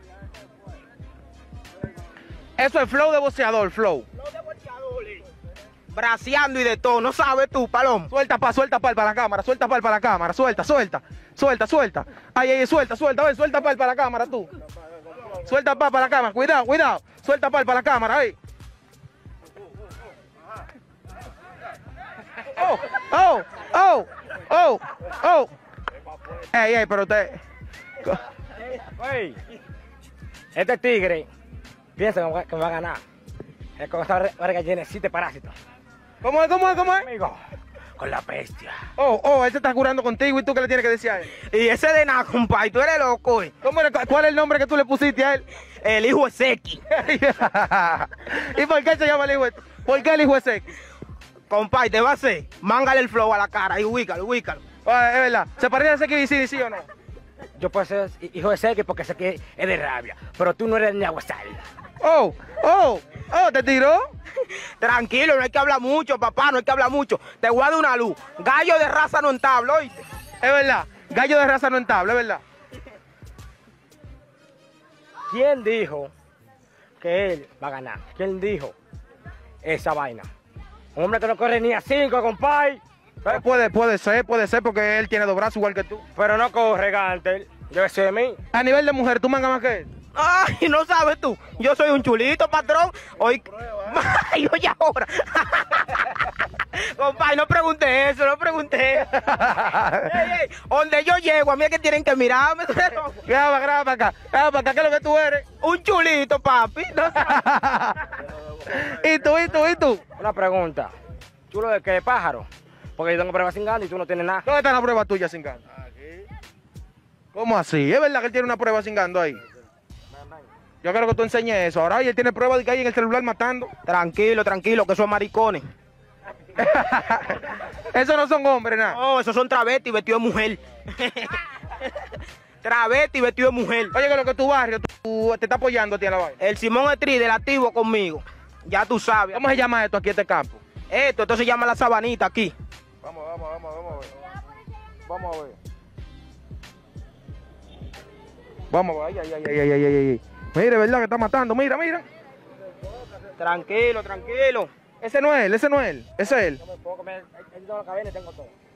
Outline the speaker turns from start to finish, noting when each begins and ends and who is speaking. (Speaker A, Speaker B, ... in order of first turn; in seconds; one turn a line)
Speaker A: 2.6-4.1
Speaker B: 4.2-5.2
Speaker B: 5.9-8.1
Speaker A: 8.1-14.5
Speaker A: 15.4-18.4
Speaker A: 22.6-25.5
Speaker A: 26.5-27.4
Speaker C: 28.8-29.4
Speaker C: 30.6-31.3
Speaker C: 32.0-33.0
Speaker C: 33.8-35.5
Speaker A: 36.2-37.1
Speaker C: 37.0-37.4
Speaker C: 38.0-38.8
Speaker A: 39.0-41.3
Speaker B: 41.4-43.5
Speaker A: 43.6-45.4
Speaker B: 45.8-46.8
Speaker A: 46.9-50.6
Speaker B: 51.5-54.6
Speaker A: 54.9-56.9
Speaker C: 57.6-61.6
Speaker A: 62.0-64.1
Speaker B: 64.6-70.0
Speaker A: 70.4-72.4
Speaker C: 75.3-76.1
Speaker C: 77.0-78.8
Speaker C: 79.6-80.3
Speaker C: 81.0-83.5
Speaker A: 83.3-86.0
Speaker C: 86.2-88.4
Speaker A: 88.5-89.9
Speaker B: 90.2-99.1
Speaker A: 99.1-100.2
Speaker B: 100.0-103.2
Speaker A: 103.2-105.4
Speaker B: 105.6-107.3
Speaker A: 107.1-108.0
Speaker A: 108.7-110.0
Speaker C: 110.2-110.9
Speaker C: 111.5-114.4
Speaker A: 114.5-115.6
Speaker A: 117.3-119.4
Speaker C: 120.2-120.5
Speaker A: 120.8-123.7
Speaker B: 123.9-125.7
Speaker A: 126.6-129.0
Speaker B: 128.9-131.9
Speaker B: 132.6-133.9
Speaker A: 133.9-136.4
Speaker B: 136.4-139.4
Speaker A: 139.3-140.6
Speaker B: 140.9-142.5
Speaker A: 143.0-144.1
Speaker A: 145.1-145.6
Speaker A: 148.7-152.1
Speaker B: 153.4-154.7
Speaker A: 155.0-156.6
Speaker C: 156.6-158.5